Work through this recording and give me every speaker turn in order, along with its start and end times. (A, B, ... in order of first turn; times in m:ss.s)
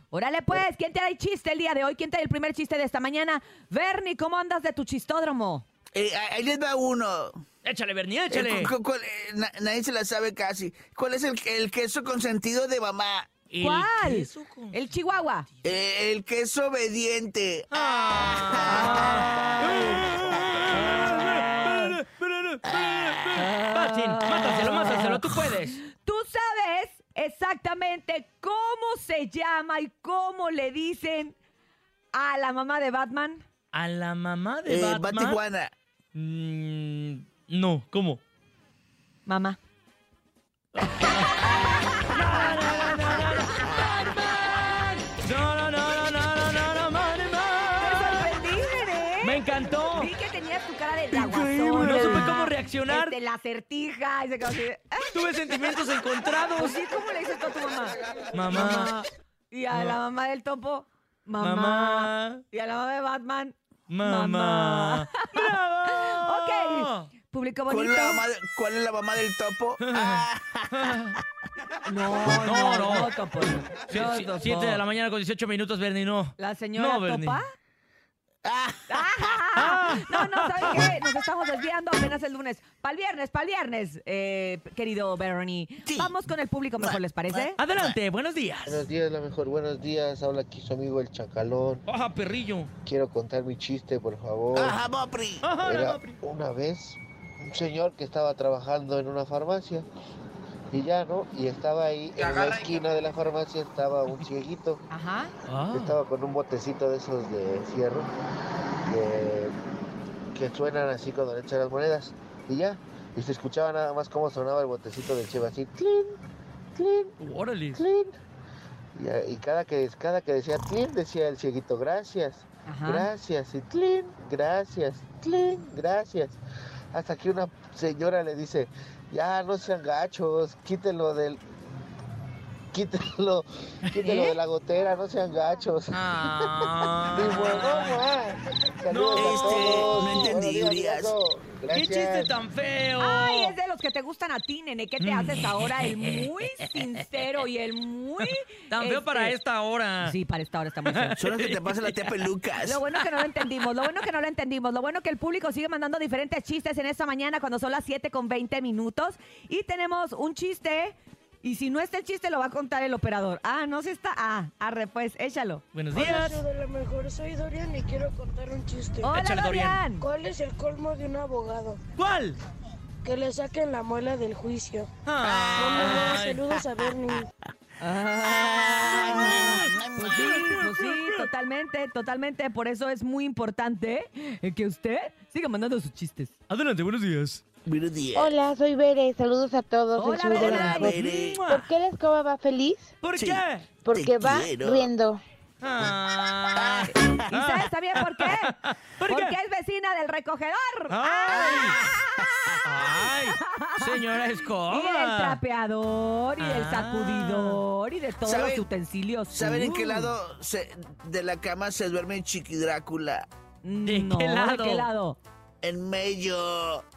0:00.1-0:05.6 A
0:05.9-0:07.4 B
0:07.6-0:08.7 C
0:08.3-0:13.3 B
0:13.5-0:14.8 C
0:13.6-0:15.5 A
0:15.6-0:17.7 B
0:17.7-0:25.8 C
0:18.5-0:19.0 B
0:18.7-0:19.1 A
0:23.4-0:31.4 A
0:32.1-0:33.4 A
0:33.7-0:35.4 C
0:34.7-0:35.7 B
0:36.1-0:38.2 C
0:39.3-0:39.6 A
0:40.8-0:48.3 C
0:47.8-0:55.1 A
0:49.2-0:50.1 C
0:51.1-0:53.2 C
0:55.1-0:56.8 C
0:56.6-0:58.0 A
0:58.3-0:58.9 C
0:58.5-1:08.2 A
0:59.7-1:00.0 C
1:01.4-1:02.4 C
1:03.9-1:07.1 C
1:07.7-1:11.2 B
1:09.8-1:11.2 C
1:11.8-1:14.8 A
1:12.2-1:13.1 C
1:13.9-1:17.4 C
1:16.4-1:17.5 A
1:18.4-1:19.3 B
1:18.9-1:27.6 A
1:19.5-1:20.9 C
1:25.9-1:26.2 B
1:26.8-1:28.0 B
1:27.6-1:28.9 C
1:28.7-1:31.8 D
1:31.9-1:32.7 C
1:32.8-1:34.8 D
1:34.5-1:35.5 B
1:35.4-1:36.2 C
1:35.6-1:39.9 D
1:40.7-1:44.8 D
1:42.2-1:42.8 B
1:44.9-1:45.3 A
1:45.5-1:46.0 C
1:45.7-1:48.1 D
1:48.8-1:49.5 D
1:50.4-1:56.2 D
1:56.8-1:57.2 D
1:57.2-1:57.8 C
1:57.7-1:58.2 D
1:59.0-2:06.4 D
2:02.7-2:03.1 A
2:06.9-2:11.4 D
2:12.7-2:22.3 D
2:14.0-2:14.4 A
2:15.9-2:18.0 C
2:18.9-2:19.7 C
2:19.2-2:21.1 B
2:21.7-2:23.6 C
2:23.0-2:29.4 A
2:25.0-2:27.0 C
2:28.2-2:30.2 C
2:30.0-2:31.2 A
2:30.8-2:32.3 C
2:31.2-2:32.8 B
2:32.6-2:45.6 A
2:45.7-2:46.4 C
2:45.9-2:49.2 E
2:49.0-2:50.1 A
2:49.1-2:49.8 C
2:49.9-2:51.8 E
2:52.0-2:52.4 C
2:53.0-2:54.9 E
2:55.1-2:56.4 C
2:55.4-2:57.3 E
2:56.6-2:56.9 B
2:57.8-3:06.3 A
2:58.8-3:00.4 B
2:58.8-3:01.3 C
3:06.5-3:07.4 C
3:07.7-3:08.3 B
3:08.2-3:12.9 F
3:10.0-3:10.9 A
3:10.3-3:11.4 B
3:10.8-3:11.7 C
3:13.0-3:13.7 C
3:13.1-3:14.9 B
3:13.8-3:15.2 F
3:15.6-3:19.4 C
3:16.6-3:17.3 B
3:17.3-3:24.1 A
3:20.9-3:21.8 C
3:21.3-3:22.2 B
3:22.6-3:25.4 C
3:24.7-3:29.8 A
3:26.4-3:27.6 C
3:28.2-3:28.7 B
3:29.3-3:33.3 B
3:29.5-3:30.1 C
3:33.6-3:35.2 A
3:33.8-3:34.9 C
3:35.6-3:36.8 B